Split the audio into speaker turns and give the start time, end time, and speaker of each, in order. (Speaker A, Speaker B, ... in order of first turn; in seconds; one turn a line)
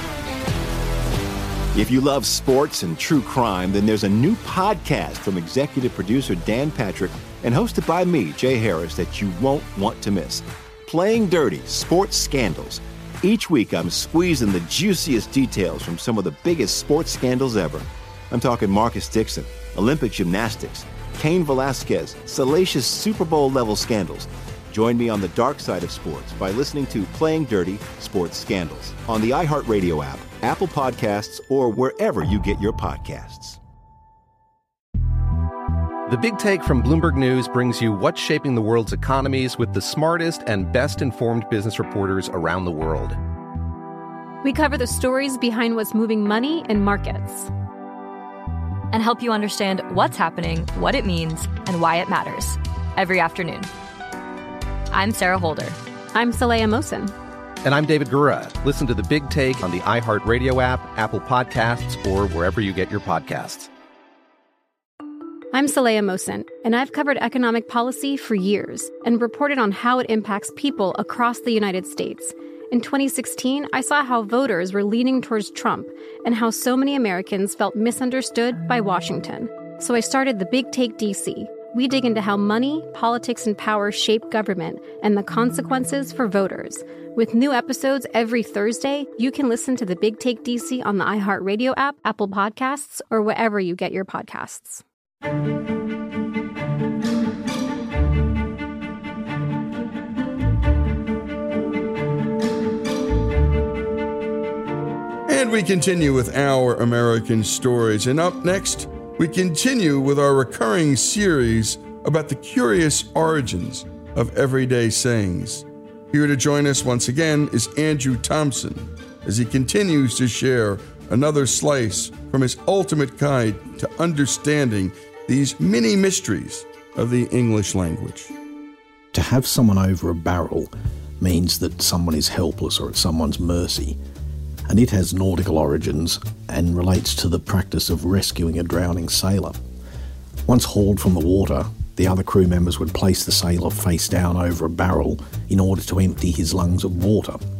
Speaker A: 1.7-33.6
Speaker B: 36.1-43.2
Speaker C: 44.4-47.5
Speaker D: 48.9-53.7
Speaker D: 54.9-55.8
Speaker C: 56.1-57.1
Speaker B: 57.6-63.7
Speaker C: 65.5-94.8
Speaker E: 105.3-128.3
Speaker F: 129.1-134.0
Speaker F: 134.7-139.6
Speaker F: 140.5-147.4